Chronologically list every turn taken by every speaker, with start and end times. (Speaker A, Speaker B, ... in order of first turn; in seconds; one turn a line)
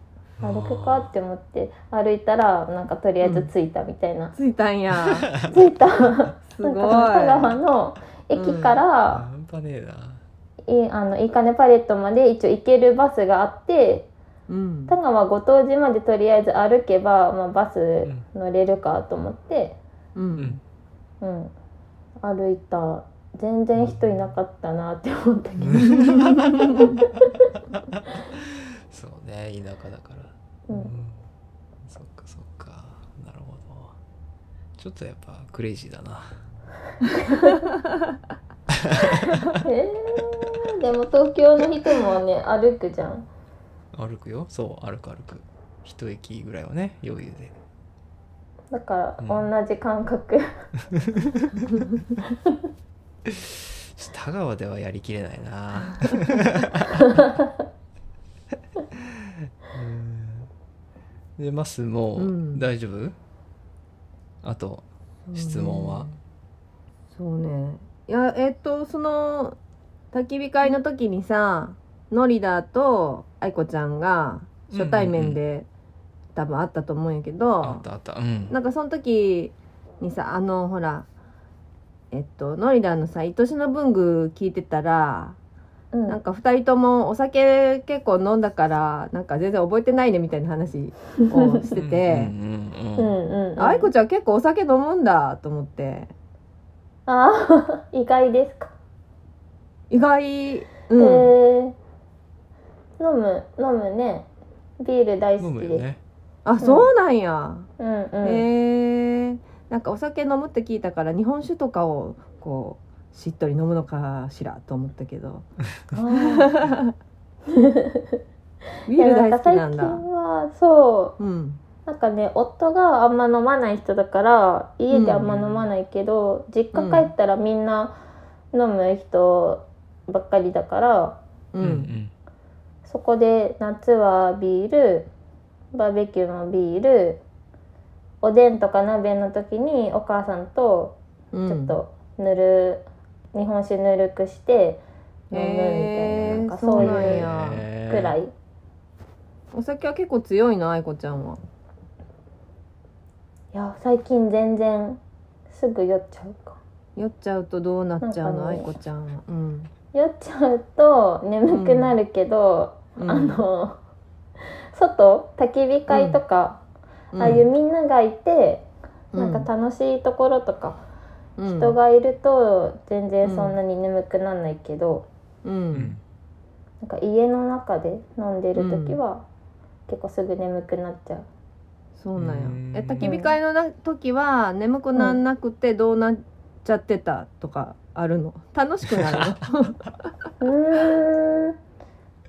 Speaker A: 0.4-1.1
Speaker B: 0.4-4.3
Speaker C: 3.2-3.5
Speaker C: 4.3-5.3
Speaker A: 5.3-5.6
Speaker B: 5.5-9.2
Speaker C: 6.5-7.6
Speaker C: 8.3-8.8
Speaker A: 9.1-10.2
Speaker B: 10.7-14.1
Speaker C: 14.5-14.9
Speaker B: 14.9-19.8
Speaker C: 20.1-20.6
Speaker A: 20.4-20.6
Speaker B: 21.2-21.5
Speaker B: 22.2-26.1
Speaker A: 23.7-24.4
Speaker A: 25.6-27.1
Speaker C: 25.6-26.9
Speaker A: 28.3-31.2
Speaker B: 30.7-30.9
Speaker A: 31.8-33.9
Speaker A: 34.8-36.4
Speaker A: 38.7-39.5
Speaker B: 39.6-43.3
Speaker A: 43.9-47.5
Speaker B: 48.7-50.4
Speaker A: 49.2-49.5
Speaker A: 51.1-51.7
Speaker A: 53.2-57.3
Speaker A: 59.0-60.5
Speaker A: 61.4-63.1
Speaker C: 62.2-62.6
Speaker A: 64.4-66.1
Speaker C: 65.3-66.2
Speaker C: 67.1-69.6
Speaker C: 70.1-75.7
Speaker A: 74.7-75.4
Speaker C: 76.3-77.8
Speaker A: 77.6-78.5
Speaker C: 78.5-81.0
Speaker C: 82.1-85.4
Speaker B: 85.9-86.2
Speaker C: 86.1-92.3
Speaker B: 91.3-91.6
Speaker A: 91.7-93.2
Speaker B: 93.0-93.9
Speaker C: 93.6-96.1
Speaker B: 97.1-98.7
Speaker C: 99.9-101.3
Speaker B: 101.0-101.8
Speaker B: 103.0-104.3
Speaker B: 104.8-105.8
Speaker A: 105.4-106.0
Speaker C: 106.4-107.7
Speaker B: 106.6-106.9
Speaker B: 107.8-108.5
Speaker C: 108.2-115.5
Speaker B: 115.9-116.5
Speaker C: 116.1-116.9
Speaker B: 117.5-118.0
Speaker C: 118.8-120.0
Speaker B: 118.9-121.2
Speaker C: 121.2-121.6
Speaker B: 121.8-128.0
Speaker C: 124.9-125.3
Speaker A: 125.2-125.7
Speaker C: 126.7-127.1
Speaker B: 128.5-131.2
Speaker C: 131.5-131.9
Speaker A: 131.6-132.1
Speaker B: 132.8-135.1
Speaker B: 135.7-137.2
Speaker B: 138.2-147.3
Speaker C: 141.3-141.8
Speaker C: 145.3-147.7
Speaker A: 146.8-148.2
Speaker B: 147.8-148.3
Speaker C: 149.5-151.4
Speaker B: 153.5-156.6
Speaker C: 156.9-159.7
Speaker B: 158.0-158.7
Speaker B: 159.9-163.8
Speaker C: 161.5-161.9
Speaker C: 162.9-163.4
Speaker B: 164.7-166.6
Speaker C: 165.9-166.2
Speaker C: 167.1-167.4
Speaker B: 167.2-170.8
Speaker C: 169.1-169.5
Speaker C: 171.4-171.8
Speaker B: 171.4-175.1
Speaker C: 173.2-173.6
Speaker C: 175.4-175.9
Speaker A: 175.7-176.0
Speaker B: 176.8-179.2
Speaker C: 178.6-179.0
Speaker B: 179.9-181.3
Speaker C: 182.0-189.8
Speaker A: 182.2-183.1
Speaker B: 183.0-183.3
Speaker B: 190.4-191.6